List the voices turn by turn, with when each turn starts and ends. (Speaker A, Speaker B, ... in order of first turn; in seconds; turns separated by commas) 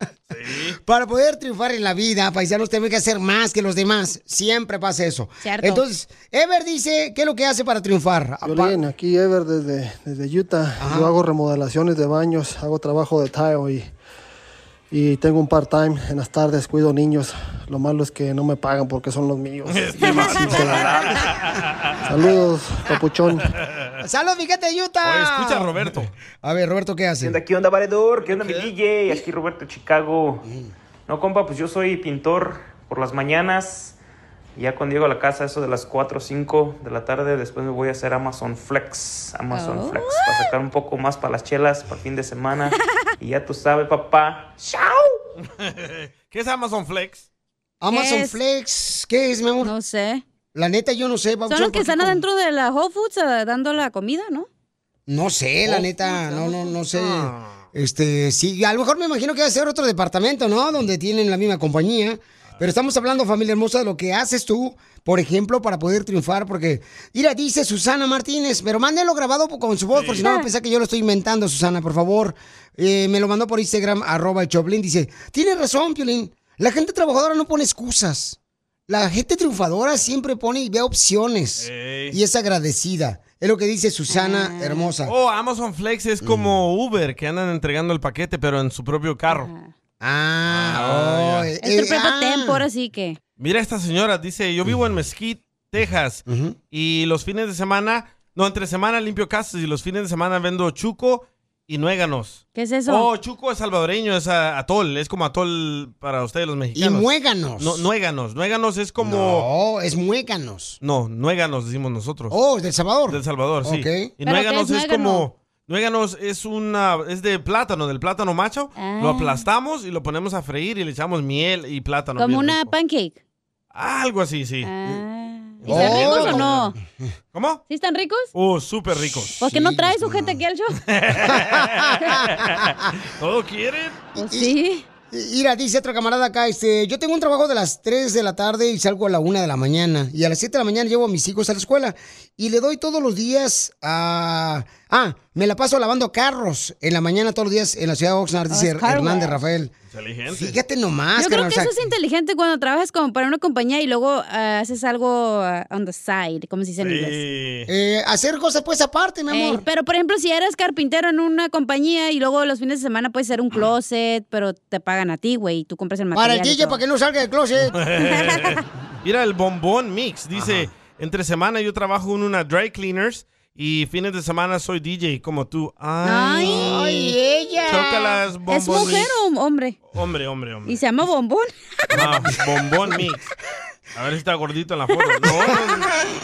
Speaker A: 0.3-0.8, Speaker B: 0.8-8.8, Speaker C: 5.4-5.8, Speaker D: 8.4-13.9, Speaker B: 10.8-11.1, Speaker D: 14.9-21.2, Speaker A: 19.7-21.9, Speaker D: 22.0-23.5, Speaker B: 24.0-27.4, Speaker A: 25.0-26.1, Speaker E: 27.2-30.4, Speaker A: 28.2-28.7, Speaker E: 31.1-34.0, Speaker E: 34.5-44.5, Speaker C: 39.5-40.4, Speaker B: 44.6-45.1, Speaker A: 45.6-47.2, Speaker B: 47.8-49.7, Speaker C: 47.9-48.4, Speaker C: 49.6-50.2, Speaker B: 50.5-52.2, Speaker C: 51.5-54.5, Speaker B: 55.1-78.4, Speaker A: 55.6-57.6, Speaker C: 56.1-56.5, Speaker A: 69.9-70.3, Speaker B: 78.9-85.1, Speaker A: 81.6-82.2, Speaker C: 84.1-84.9, Speaker A: 85.0-89.5, Speaker B: 86.2-86.5, Speaker C: 89.3-89.7, Speaker B: 90.0-92.6, Speaker A: 90.5-91.5, Speaker C: 91.6-93.2, Speaker A: 93.4-109.5, Speaker B: 96.3-96.5, Speaker C: 102.5-103.1, Speaker B: 106.7-107.8, Speaker B: 109.0-110.8, Speaker A: 110.8-112.3, Speaker B: 112.3-114.1, Speaker A: 113.1-122.7, Speaker C: 114.2-115.2, Speaker C: 118.8-119.4, Speaker C: 122.2-123.2, Speaker A: 123.7-124.7, Speaker C: 124.6-126.8, Speaker A: 125.6-126.7, Speaker B: 125.7-126.5, Speaker A: 127.3-127.6, Speaker C: 127.7-128.3, Speaker A: 128.3-129.8, Speaker C: 129.4-130.8, Speaker B: 129.5-130.3, Speaker A: 130.9-134.0, Speaker B: 131.3-132.6, Speaker B: 134.1-134.5, Speaker C: 134.2-134.8, Speaker B: 135.1-149.7, Speaker C: 148.5-149.4, Speaker A: 149.9-150.6, Speaker B: 150.3-151.7, Speaker C: 151.2-157.2, Speaker A: 156.8-157.7, Speaker B: 157.7-159.6, Speaker C: 159.3-166.8, Speaker B: 166.1-167.8, Speaker A: 167.7-177.0, Speaker C: 168.0-168.6, Speaker B: 170.3-170.7, Speaker C: 176.0-176.8, Speaker B: 176.4-178.2, Speaker A: 177.7-179.1, Speaker C: 178.5-179.8, Speaker A: 179.9-180.8, Speaker C: 180.7-181.5, Speaker A: 181.9-183.2, Speaker A: 183.9-185.9